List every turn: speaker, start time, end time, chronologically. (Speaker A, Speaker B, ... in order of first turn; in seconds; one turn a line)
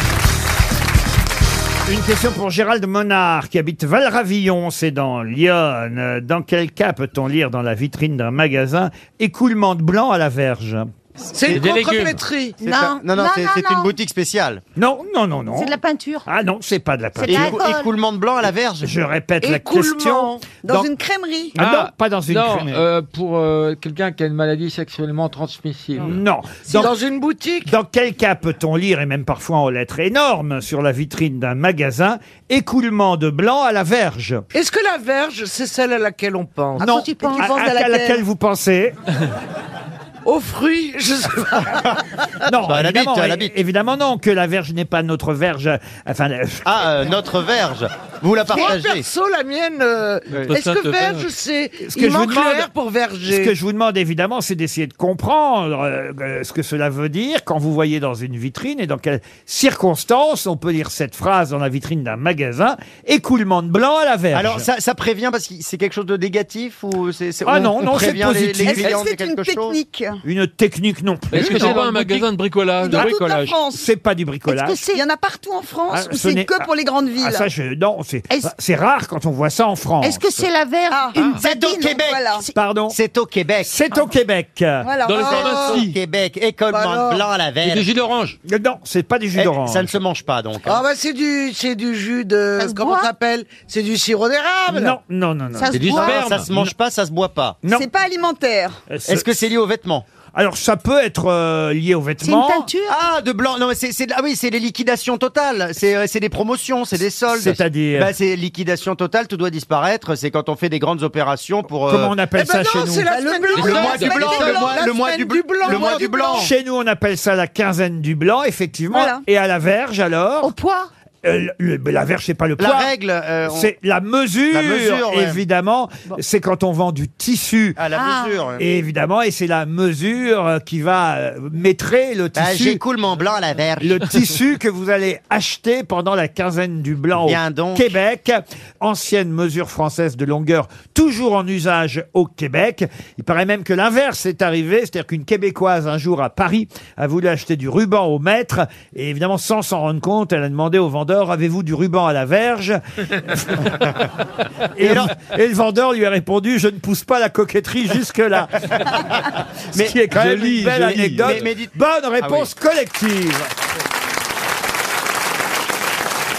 Speaker A: 1.9-10.9
Speaker B: 11.3-12.6
Speaker C: 11.5-12.2
Speaker D: 12.6-14.0
Speaker E: 12.6-14.6
Speaker A: 14.8-15.8
Speaker D: 15.5-16.3
Speaker A: 16.3-17.6
Speaker D: 17.2-18.0
Speaker E: 17.3-18.9
Speaker A: 18.8-20.9
Speaker B: 19.4-20.5
Speaker F: 20.6-21.6
Speaker A: 21.6-22.9
Speaker C: 21.6-26.2
Speaker A: 26.0-26.9
Speaker B: 26.7-27.7
Speaker A: 27.7-34.4
Speaker B: 34.5-36.9
Speaker A: 36.8-39.0
Speaker D: 36.8-37.9
Speaker F: 36.8-38.2
Speaker B: 40.2-41.9
Speaker A: 42.5-46.7
Speaker E: 42.7-43.5
Speaker E: 46.7-49.1
Speaker B: 48.5-53.5
Speaker G: 50.4-51.3
Speaker A: 51.8-52.7
Speaker A: 53.3-64.7
Speaker E: 64.3-69.8
Speaker A: 67.5-69.0
Speaker F: 68.6-70.2
Speaker A: 70.2-71.8
Speaker C: 71.3-72.2
Speaker G: 71.4-73.1
Speaker F: 72.8-73.8
Speaker C: 72.9-73.6
Speaker A: 73.7-74.8
Speaker D: 74.5-75.0
Speaker F: 74.9-77.5
Speaker A: 75.9-76.7
Speaker A: 77.2-80.5
Speaker D: 80.0-82.5
Speaker F: 80.9-82.5
Speaker E: 81.4-82.2
Speaker A: 82.5-83.0
Speaker E: 82.9-83.7
Speaker A: 83.6-84.9
Speaker F: 84.8-85.7
Speaker G: 85.0-86.0
Speaker E: 85.2-87.9
Speaker B: 85.5-85.8
Speaker B: 86.7-87.3
Speaker C: 87.6-88.4
Speaker A: 88.5-90.0
Speaker E: 89.3-90.8
Speaker B: 90.7-95.0
Speaker D: 92.6-93.1
Speaker A: 94.7-96.2
Speaker D: 95.5-96.3
Speaker C: 95.7-96.7
Speaker E: 96.2-97.6
Speaker F: 97.7-98.9
Speaker A: 98.9-99.4
Speaker E: 99.0-100.1
Speaker A: 100.3-102.7
Speaker D: 102.2-103.0
Speaker E: 102.9-112.2
Speaker A: 107.3-108.1
Speaker A: 111.9-113.2
Speaker B: 112.3-116.5
Speaker F: 113.1-114.9
Speaker C: 113.5-114.3
Speaker E: 113.6-116.5
Speaker F: 115.7-116.1
Speaker A: 116.3-120.5
Speaker F: 118.9-119.2
Speaker D: 120.4-120.9
Speaker A: 121.2-122.9
Speaker E: 122.6-123.7
Speaker A: 123.5-127.8
Speaker E: 124.5-125.4
Speaker E: 127.8-128.6
Speaker D: 127.9-128.5
Speaker A: 128.6-132.8
Speaker E: 132.4-134.1
Speaker A: 133.8-153.8
Speaker E: 137.2-137.9
Speaker A: 154.8-159.0
Speaker E: 154.8-155.1
Speaker E: 159.7-160.0
Speaker A: 159.7-163.5
Speaker G: 160.1-161.4
Speaker E: 160.7-162.5